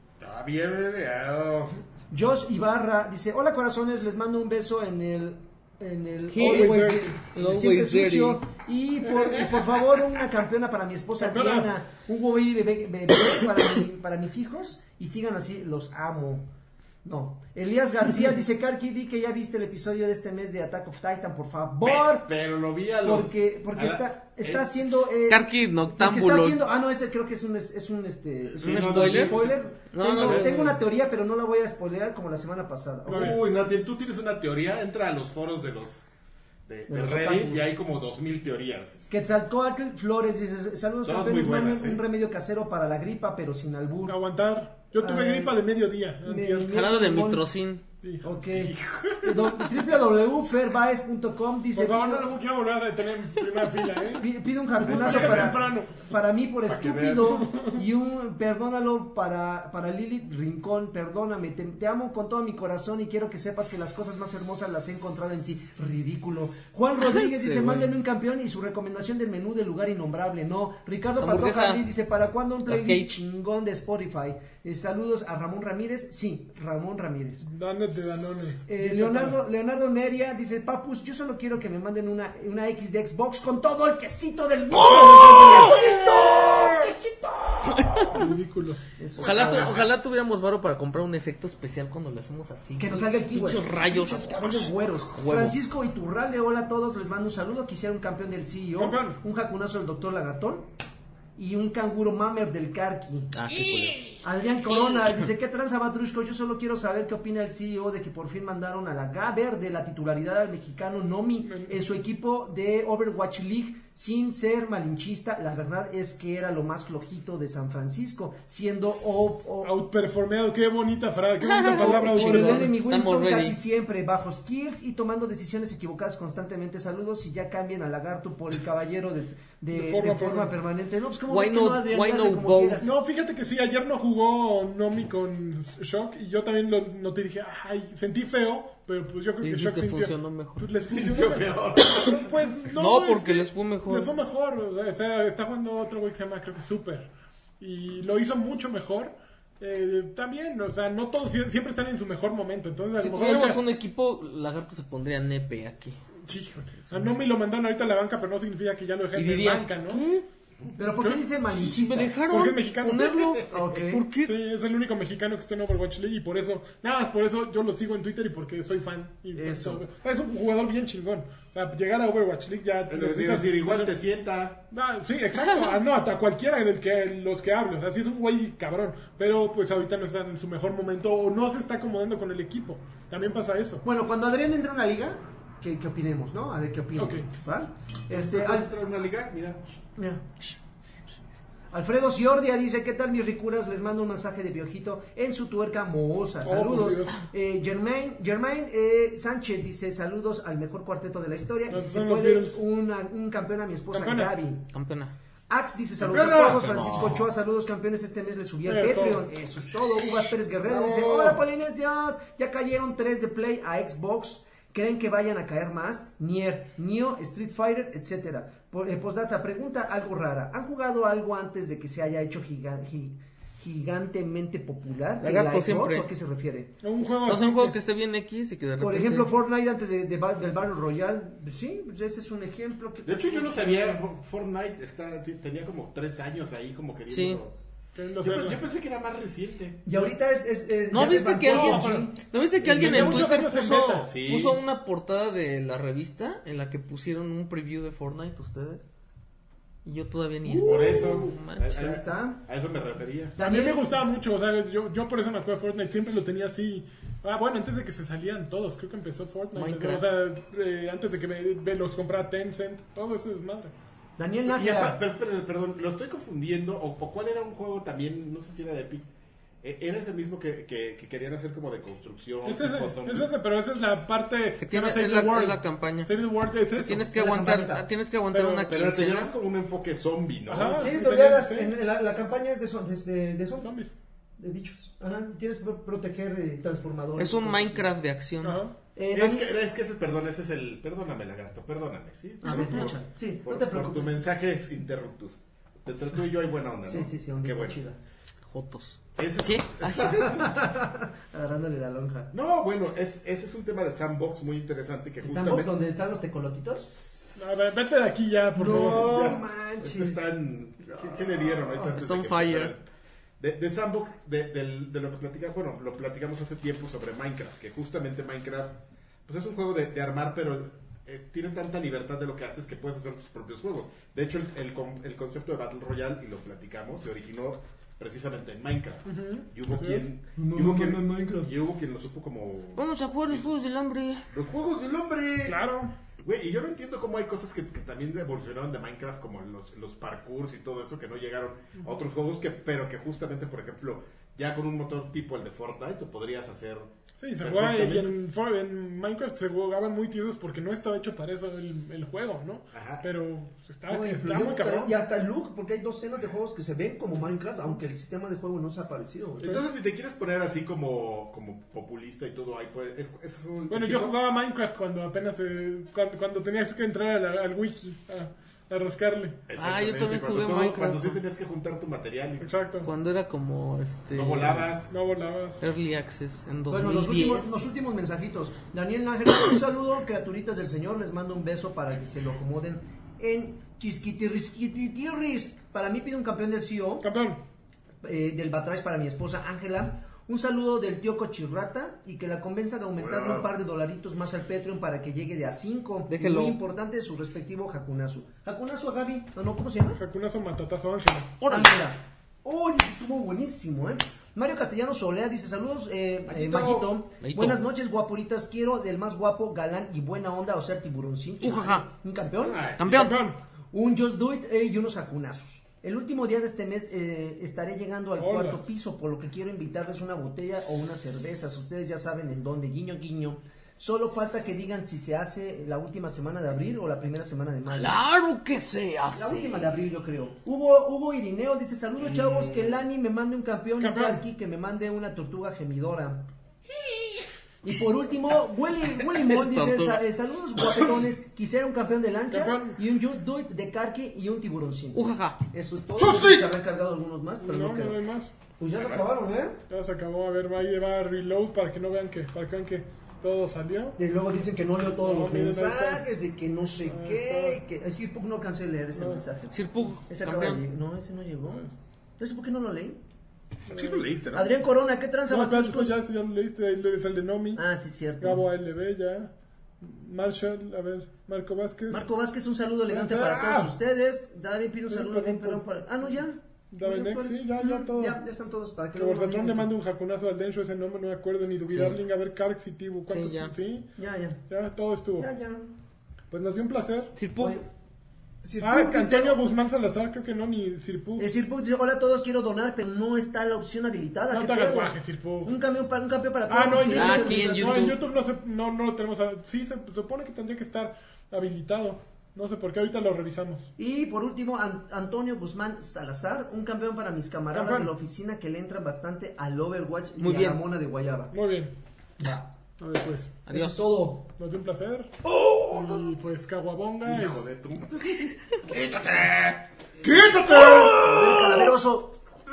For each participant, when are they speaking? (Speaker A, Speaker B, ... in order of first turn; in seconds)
Speaker A: 0.2-1.8, 21.8-24.7, 28.5-29.6, 33.0-36.1, 36.7-39.0, 41.0-42.0, 48.5-49.3, 54.9-55.5, 56.6-57.5, 89.4-89.8, 140.8-142.1, 172.9-174.6, 188.1-189.6, 206.0-207.2, 210.7-211.4, 233.0-237.5, 238.2-239.8, 244.1-244.6, 250.6-253.3, 264.4-269.1, 269.6-273.3, 278.6-280.9, 289.1-297.8, 299.1-300.6, 302.3-305.7, 308.7-312.9, 313.4-333.5, 334.3-335.6, 336.2-348.1, 352.7-353.0, 359.4-364.1, 369.5-372.5, 374.1-374.9, 392.9-393.5, 406.3-406.9, 412.4-413.1, 432.1-432.6, 448.8-449.0, 463.7-464.5, 517.0-521.1
Speaker B: 2.1-16.5, 17.0-22.3, 23.0-33.4, 36.9-37.7, 39.1-44.1, 45.0-45.6, 46.2-47.4, 48.2-52.3, 54.2-77.5, 78.7-88.2, 89.0-89.8, 92.8-100.7, 101.3-103.3, 104.2-119.7, 121.7-132.9, 160.8-162.2, 163.4-164.0, 169.3-169.8, 183.8-188.7, 190.0-190.3, 191.7-204.6, 205.5-226.7, 228.8-234.0, 239.8-243.3, 250.4-252.4, 253.4-253.9, 264.2-265.0, 277.1-277.9, 280.8-283.8, 284.4-287.9, 288.9-289.5, 292.4-294.3, 296.8-298.0, 300.0-302.3, 305.2-306.9, 308.5-310.3, 311.0-312.0, 330.4-331.5, 353.9-359.6, 376.7-387.0, 388.0-400.0, 401.5-412.7, 413.7-428.0, 429.1-436.3, 437.6-448.0, 448.6-449.6, 454.0-463.0, 464.3-465.9, 467.6-468.4, 471.9-479.7, 484.0-484.4, 485.2-485.7, 487.4-487.6, 488.4-489.4, 491.2-498.0, 503.8-511.3, 513.5-514.3, 520.4-522.2
Speaker C: 6.3-8.4, 25.3-26.6, 28.7-30.8, 46.6-47.8, 66.9-67.9, 71.2-71.8, 72.7-73.1, 85.0-85.7, 87.6-88.3, 89.2-95.6, 103.3-104.1, 121.4-123.6, 131.3-132.9, 139.4-140.6, 141.8-142.2, 142.7-144.1, 153.0-156.0, 159.1-160.2, 161.5-164.3, 204.7-205.1, 206.6-207.1, 225.2-226.1, 227.2-229.3, 237.1-237.4, 240.9-248.8, 249.8-251.7, 259.5-260.0, 274.6-276.1, 276.7-279.3, 287.2-288.6, 292.4-292.9, 298.5-300.2, 311.9-312.7, 332.8-334.3, 369.6-371.2, 372.8-374.8, 375.6-377.5, 396.1-396.6, 401.4-401.8, 407.2-407.6, 411.4-411.8, 412.8-413.2, 427.7-429.7, 439.0-440.0, 444.9-445.4, 459.5-460.6, 483.1-483.5, 487.1-487.6, 496.9-498.0, 510.2-510.6, 513.5-513.8
Speaker D: 6.4-7.1, 11.2-11.7, 28.6-29.7, 33.0-33.4, 44.1-46.7, 48.0-48.3, 51.7-56.0, 57.2-57.8, 77.4-79.4, 84.8-85.8, 88.1-88.8, 98.7-99.2, 111.4-111.7, 119.6-122.8, 129.7-130.5, 132.8-147.1, 147.6-153.6, 156.2-160.0, 162.2-163.4, 164.2-173.9, 174.7-183.8, 186.9-187.3, 196.4-197.2, 201.7-202.6, 203.9-204.3, 208.6-209.2, 226.8-227.8, 237.9-238.6, 241.4-242.1, 242.7-244.1, 253.4-263.7, 272.4-277.1, 278.3-278.7, 280.5-281.7, 283.6-283.9, 288.4-288.7, 307.3-309.3, 329.1-330.1, 335.4-335.9, 347.2-354.9, 363.7-369.4, 372.4-372.9, 374.9-375.6, 387.0-387.4, 399.9-401.4, 412.8-413.4, 418.2-418.6, 433.8-434.2, 442.3-442.8, 446.0-446.5, 447.4-448.3, 449.7-454.0, 455.0-456.0, 456.8-457.6, 458.9-459.2, 463.7-464.1, 465.3-467.6, 468.2-472.1, 472.9-473.7, 474.9-475.6, 476.7-478.2, 478.9-483.9, 484.5-485.3, 486.3-487.1, 488.6-491.3, 494.3-495.6, 496.5-503.7, 507.5-507.9, 511.3-511.7, 512.8-513.4, 514.4-515.1, 515.7-517.4